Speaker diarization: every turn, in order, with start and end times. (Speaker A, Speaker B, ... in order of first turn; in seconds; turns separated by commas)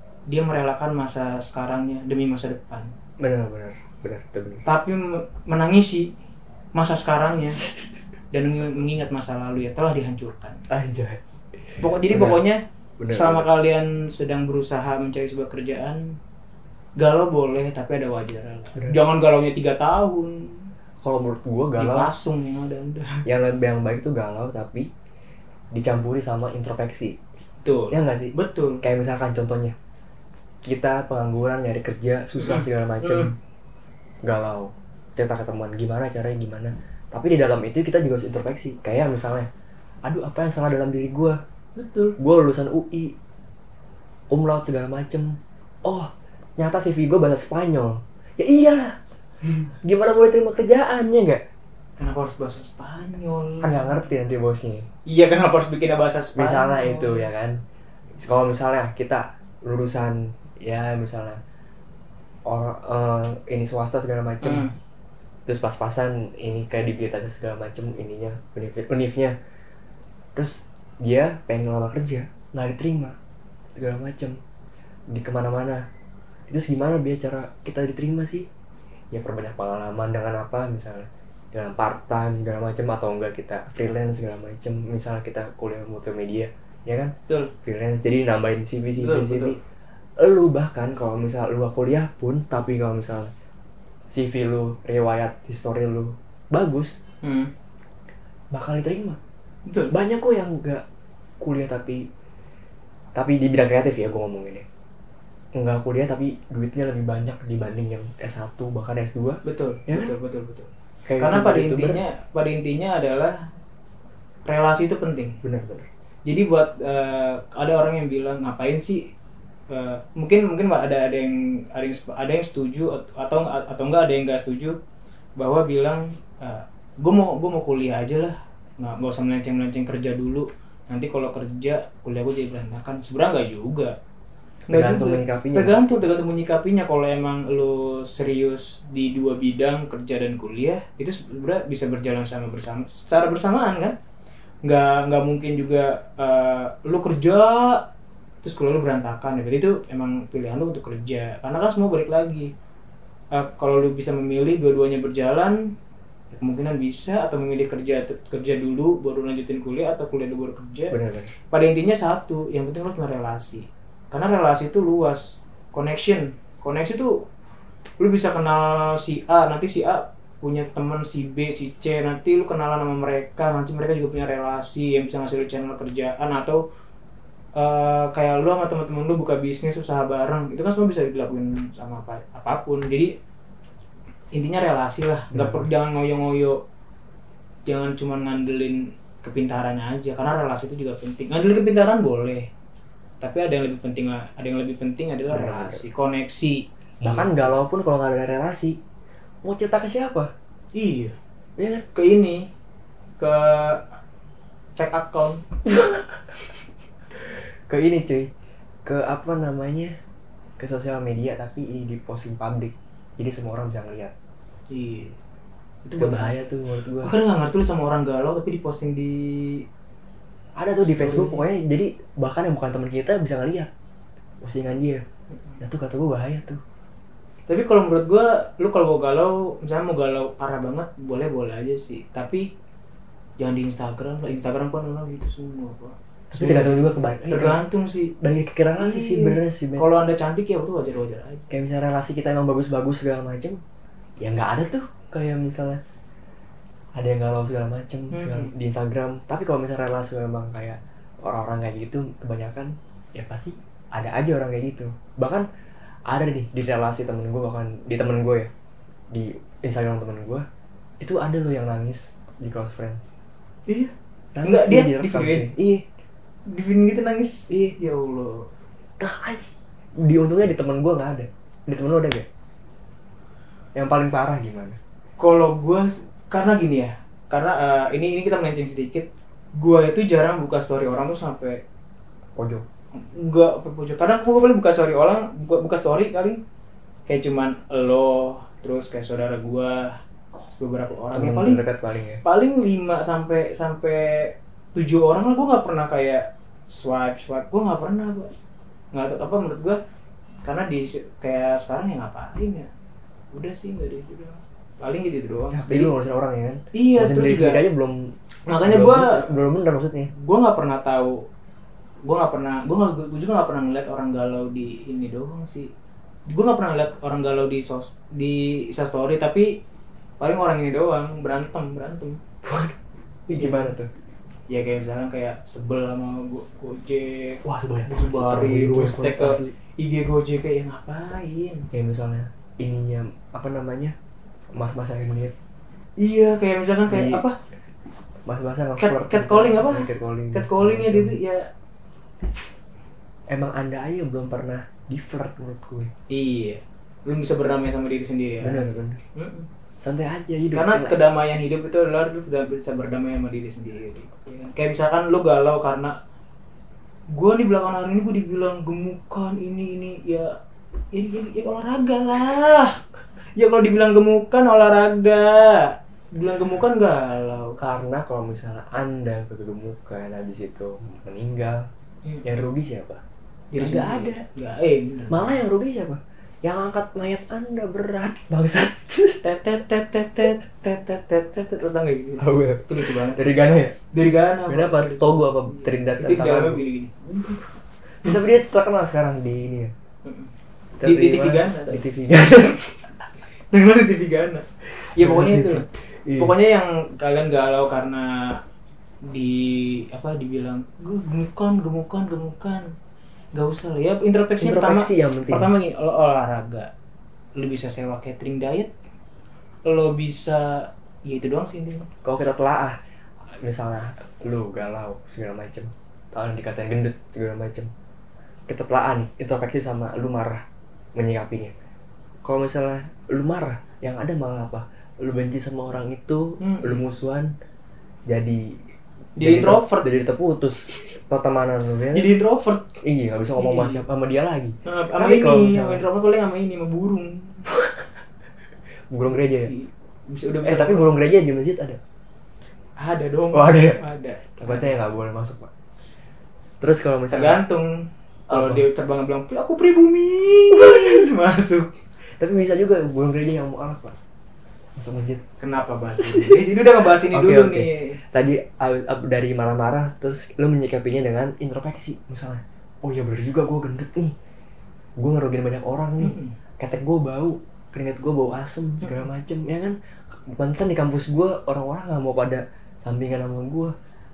Speaker A: 0.3-2.9, Speaker B: 3.2-4.6, Speaker A: 4.7-6.1, Speaker A: 6.7-7.6, Speaker A: 8.3-10.6, Speaker B: 10.7-12.4, Speaker A: 11.8-16.2, Speaker B: 13.0-13.5, Speaker A: 17.0-20.7, Speaker B: 21.0-22.1, Speaker A: 21.8-23.2, Speaker B: 23.2-24.9, Speaker B: 25.7-27.2, Speaker A: 27.6-28.8, Speaker B: 27.9-29.7, Speaker B: 30.6-33.3, Speaker A: 32.4-33.3, Speaker B: 34.2-39.5, Speaker B: 40.0-41.4, Speaker A: 41.8-42.1, Speaker B: 42.2-43.1, Speaker B: 44.3-49.0, Speaker B: 49.7-51.4, Speaker A: 52.0-53.9, Speaker B: 53.6-54.9, Speaker A: 55.1-57.3, Speaker B: 56.4-57.6, Speaker B: 58.2-61.4, Speaker B: 62.5-64.7, Speaker A: 64.4-64.7, Speaker B: 65.5-69.3, Speaker B: 70.3-73.2, Speaker B: 73.7-74.4, Speaker B: 75.1-75.8, Speaker B: 76.5-78.5, Speaker B: 79.1-89.6, Speaker A: 89.0-89.6, Speaker B: 90.2-93.3, Speaker B: 94.1-97.0, Speaker A: 97.2-97.5, Speaker B: 98.5-99.2, Speaker A: 99.7-99.9, Speaker B: 99.9-100.8, Speaker B: 101.4-102.0, Speaker B: 103.2-104.6, Speaker B: 105.5-110.1, Speaker A: 109.4-113.4, Speaker B: 111.0-112.0, Speaker A: 114.5-115.4, Speaker B: 115.4-115.9, Speaker A: 116.2-119.1, Speaker A: 119.7-124.8, Speaker A: 125.4-133.9, Speaker B: 134.7-135.8, Speaker A: 134.7-143.9, Speaker A: 144.6-147.8, Speaker A: 148.4-152.5, Speaker A: 153.3-155.6, Speaker A: 156.4-160.9, Speaker B: 160.9-161.3, Speaker A: 161.5-167.2, Speaker A: 168.0-176.6, Speaker A: 177.6-183.1, Speaker A: 184.3-186.6, Speaker B: 185.3-185.7, Speaker A: 187.7-192.5, Speaker A: 193.2-197.5, Speaker B: 195.3-195.8, Speaker B: 197.0-198.8, Speaker B: 199.4-200.3, Speaker A: 200.7-201.1, Speaker B: 201.6-201.8, Speaker A: 201.9-202.4, Speaker A: 203.2-203.9, Speaker A: 204.8-205.4, Speaker B: 205.7-206.3, Speaker B: 207.7-208.3, Speaker B: 208.8-209.9, Speaker B: 210.6-214.1, Speaker A: 214.7-215.2, Speaker A: 215.8-216.4, Speaker B: 216.0-217.1, Speaker A: 217.0-219.6, Speaker B: 220.6-223.7, Speaker A: 220.8-221.4, Speaker B: 224.4-225.0, Speaker B: 225.6-226.6, Speaker A: 227.5-232.5, Speaker A: 233.4-238.1, Speaker B: 236.3-237.6, Speaker B: 238.2-239.9, Speaker A: 238.8-241.4, Speaker B: 241.5-243.6, Speaker B: 244.2-245.8, Speaker B: 246.9-255.4, Speaker A: 248.1-248.5, Speaker B: 256.1-258.5, Speaker B: 259.1-260.4, Speaker B: 261.0-263.1, Speaker A: 263.7-263.9, Speaker B: 264.3-265.8, Speaker A: 264.4-265.5, Speaker A: 266.5-268.5, Speaker B: 267.5-267.8, Speaker B: 269.0-272.3, Speaker B: 273.7-274.8, Speaker A: 275.2-281.6, Speaker B: 282.4-282.6, Speaker A: 282.9-286.4, Speaker A: 287.1-289.9, Speaker A: 290.5-291.6, Speaker B: 291.1-292.2, Speaker A: 292.2-298.3, Speaker A: 298.9-299.8, Speaker A: 300.4-302.7, Speaker A: 303.3-305.9, Speaker B: 305.5-310.1, Speaker A: 306.7-307.6, Speaker A: 308.5-309.2, Speaker A: 310.1-311.2, Speaker A: 312.0-315.7, Speaker A: 316.3-319.5, Speaker A: 320.2-322.2, Speaker B: 322.4-322.8, Speaker B: 323.3-323.9, Speaker A: 323.3-323.7, Speaker A: 324.5-331.7, Speaker B: 327.4-329.5, Speaker B: 331.7-333.9, Speaker B: 334.5-335.3, Speaker A: 336.0-337.4, Speaker B: 336.9-337.2, Speaker B: 338.2-341.2, Speaker A: 338.8-341.5, Speaker B: 343.3-345.9, Speaker A: 346.1-349.5, Speaker B: 348.4-349.0, Speaker B: 349.8-351.2, Speaker A: 350.5-355.9, Speaker A: 357.1-360.3, Speaker A: 360.9-362.8, Speaker A: 363.4-367.6, Speaker B: 367.6-371.6, Speaker B: 372.2-373.0, Speaker A: 373.5-375.4, Speaker B: 373.5-374.2, Speaker B: 375.1-379.2, Speaker A: 379.2-383.2, Speaker B: 382.2-387.4, Speaker A: 383.9-386.9, Speaker B: 388.0-389.7, Speaker A: 390.0-390.3, Speaker B: 390.8-392.6, Speaker A: 390.8-392.7, Speaker A: 393.5-395.6, Speaker B: 394.8-396.3, Speaker A: 396.2-398.4, Speaker A: 399.0-402.7, Speaker A: 403.3-406.7, Speaker B: 404.4-405.5, Speaker A: 407.4-408.7, Speaker A: 409.6-411.9, Speaker B: 412.0-412.8, Speaker B: 413.4-417.7, Speaker B: 418.5-420.4, Speaker B: 420.9-421.5, Speaker B: 422.2-427.3, Speaker A: 426.4-426.8, Speaker B: 428.1-428.6, Speaker A: 429.2-429.9, Speaker B: 429.2-432.1, Speaker A: 431.9-432.7, Speaker B: 432.8-435.8, Speaker A: 433.4-433.8, Speaker A: 434.6-437.5, Speaker B: 437.5-437.9, Speaker B: 438.9-439.5, Speaker A: 439.4-440.9, Speaker B: 440.4-441.8, Speaker A: 442.8-444.8, Speaker B: 443.3-443.8, Speaker B: 444.4-445.5, Speaker B: 446.6-447.4, Speaker A: 447.1-451.7, Speaker B: 448.3-448.6, Speaker B: 450.5-451.1, Speaker B: 452.2-453.9, Speaker B: 454.8-455.2, Speaker A: 455.4-458.0, Speaker B: 456.0-456.4, Speaker B: 456.9-464.1, Speaker B: 465.0-473.7, Speaker A: 466.0-466.3